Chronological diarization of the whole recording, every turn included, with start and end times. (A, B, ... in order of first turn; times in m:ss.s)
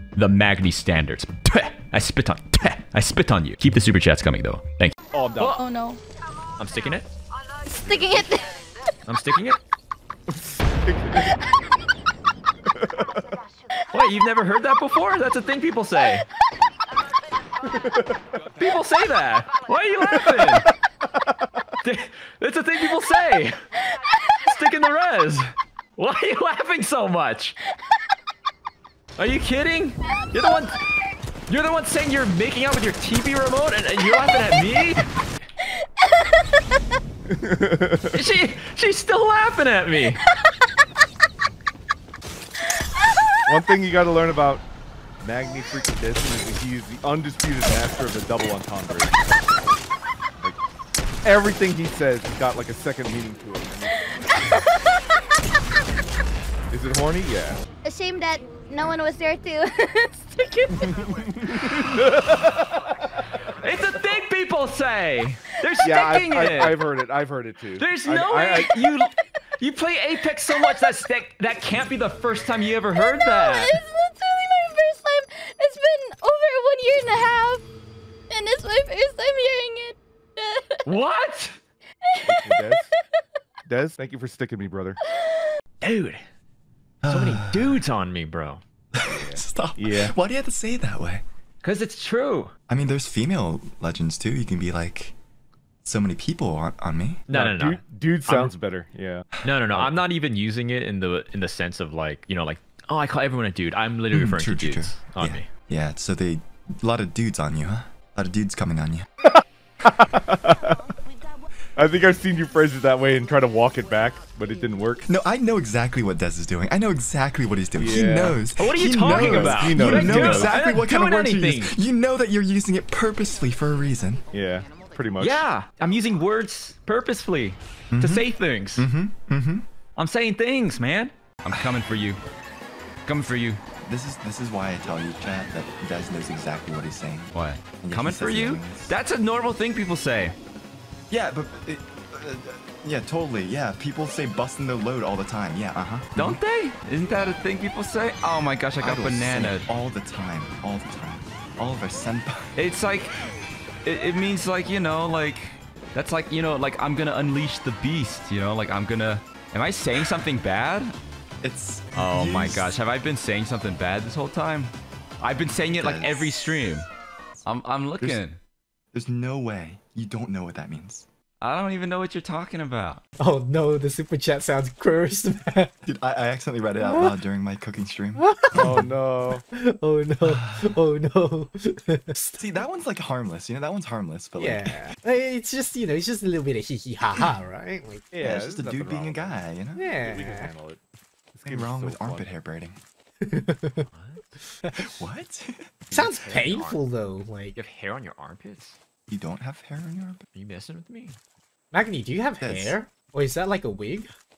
0:00.2-0:05.6 A
0:05.1-0:05.6 B
0:05.5-0:06.0 C
0:06.6-0:07.1 A
0:07.6-0:08.7 C
0:09.1-0:09.6 A
0:10.8-0:11.2 B
0:13.9-0:16.2 A
0:18.6-0:20.7 A
0:21.8-0:23.6 A
0:23.9-0:24.4 C
0:24.4-0:27.6 A
0:29.2-0:30.8 A
0:31.5-0:35.1 A
0:37.3-0:38.2 B
0:38.1-0:40.2 A
0:43.5-0:44.6 B
0:45.2-0:49.2 B
0:51.2-0:54.2 B
0:54.1-0:55.2 C
0:56.7-0:57.6 B
0:57.8-1:02.0 C
1:00.8-1:02.8 B
1:03.6-1:06.8 A
1:05.8-1:08.8 B
1:07.8-1:13.8 A
1:10.5-1:11.0 C
1:12.9-1:17.6 C
1:18.3-1:20.8 C
1:20.8-1:21.6 A
1:22.1-1:22.9 C
1:22.2-1:22.9 B
1:23.7-1:25.0 B
1:25.1-1:25.5 C
1:25.8-1:26.2 A
1:27.0-1:27.8 D
1:27.1-1:28.6 A
1:28.9-1:31.2 D
1:29.1-1:30.1 B
1:31.6-1:32.5 A
1:32.7-1:35.2 D
1:35.8-1:37.2 D
1:37.3-1:38.5 A
1:37.3-1:39.3 B
1:39.4-1:45.5 A
1:44.1-1:49.1 D
1:49.2-1:50.8 B
1:51.8-1:55.0 B
1:55.0-2:04.2 D
1:57.8-2:00.6 B
1:58.6-2:01.7 A
2:04.3-2:05.4 B
2:05.2-2:08.9 A
2:07.9-2:09.7 D
2:10.0-2:12.2 A
2:13.1-2:13.6 A
2:13.8-2:18.9 D
2:17.3-2:20.4 A
2:21.1-2:26.4 D
2:26.2-2:29.7 A
2:28.8-2:32.5 D
2:32.6-2:33.1 A
2:33.8-2:41.0 A
2:41.4-2:42.7 D
2:42.0-2:46.9 A
2:45.5-2:46.4 D
2:47.4-2:48.4 A
2:48.9-2:51.1 D
2:51.4-2:53.0 A
2:53.2-2:55.7 E
2:55.8-2:58.9 D
2:56.8-2:57.1 E
2:58.2-2:58.9 E
2:58.5-2:59.4 B
2:59.5-3:02.3 E
3:00.2-3:00.8 D
3:02.3-3:04.8 D
3:04.4-3:08.1 E
3:08.1-3:09.5 B
3:08.2-3:10.0 D
3:09.8-3:10.5 E
3:10.0-3:10.8 B
3:11.3-3:12.3 B
3:11.4-3:12.8 D
3:13.2-3:13.8 E
3:13.9-3:14.2 A
3:14.7-3:15.8 D
3:15.9-3:17.6 E
3:15.9-3:16.8 A
3:17.6-3:18.8 A
3:19.1-3:20.3 D
3:20.3-3:21.2 A
3:21.7-3:24.1 E
3:22.4-3:22.8 D